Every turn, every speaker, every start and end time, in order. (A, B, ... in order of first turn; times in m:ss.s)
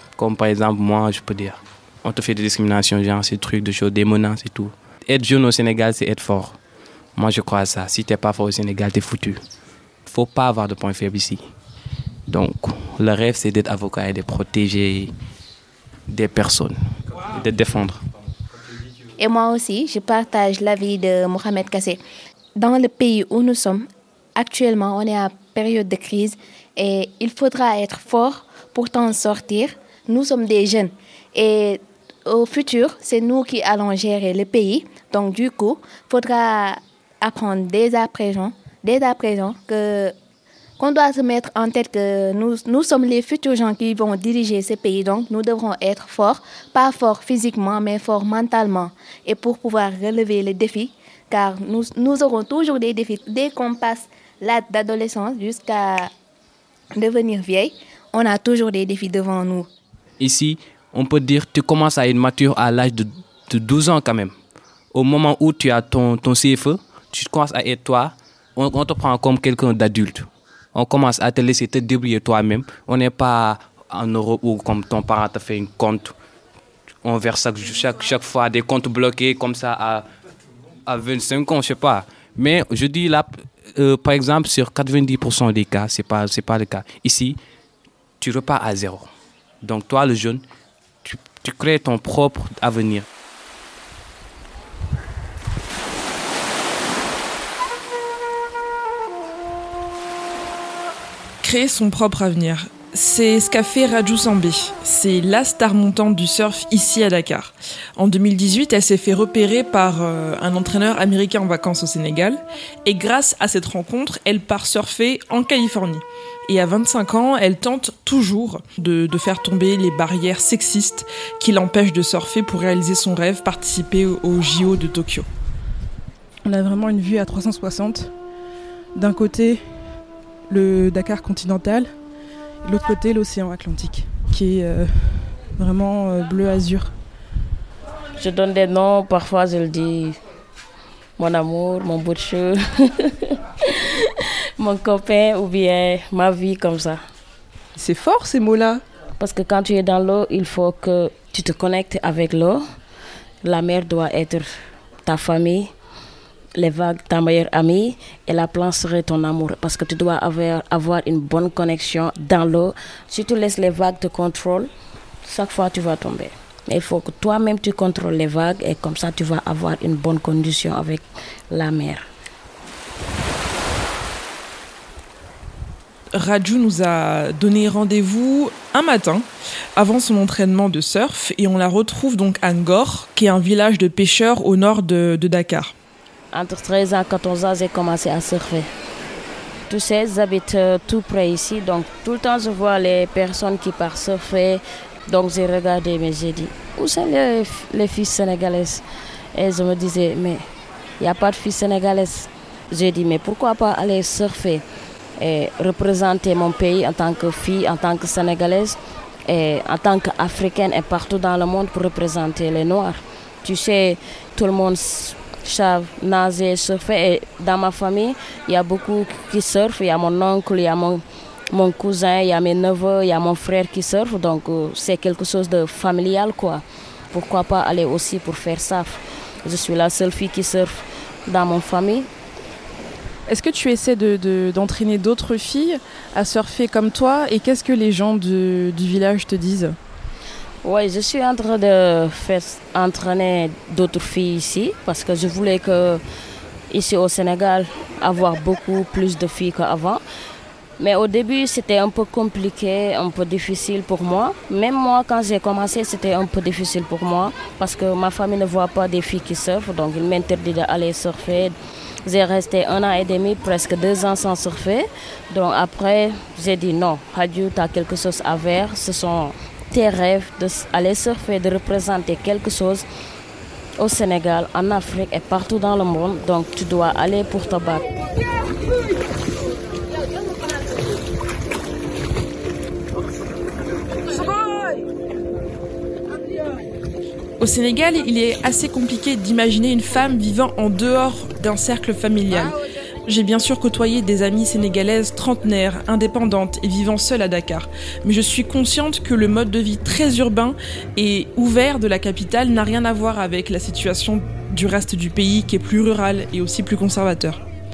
0:00.2-0:06.6 A
0:07.2-0:09.4 A
0:10.0-0:11.4 A
0:12.3-0:15.1 A
0:16.1-0:18.0 A
0:19.2-0:22.0 B
0:22.6-0:40.1 B
0:40.8-0:56.1 B
0:57.0-0:59.7 B
1:00.2-1:04.3 A
1:04.9-1:16.1 A
1:17.0-1:20.0 A
1:20.9-1:27.4 A
1:28.2-1:29.1 A
1:29.6-1:30.4 A
1:31.0-1:33.1 A
1:41.4-2:05.3 C
2:06.5-2:08.0 D
2:06.7-2:07.9 C
2:09.0-2:09.6 D
2:09.0-2:09.5 C
2:10.5-2:11.8 C
2:10.5-2:11.8 D
2:12.6-2:16.8 D
2:12.6-2:14.7 C
2:15.5-2:16.8 C
2:18.2-2:20.2 E
2:21.2-2:27.0 E
2:27.8-2:28.8 C
2:29.2-2:32.6 E
2:33.4-2:34.5 E
2:35.0-2:35.7 E
2:36.5-2:44.7 E
2:45.2-2:52.0 E
2:56.1-3:05.7 C
3:06.3-3:08.7 E
3:09.7-3:18.8 E
3:19.3-3:20.4 E
3:21.0-3:24.6 E
3:25.2-3:52.1 E
3:53.3-3:59.7 C
4:00.6-4:06.0 E
4:06.7-4:10.0 E
4:10.8-4:21.5 E
4:22.0-4:32.8 E
4:33.8-4:37.8 E
4:47.4-5:07.4 C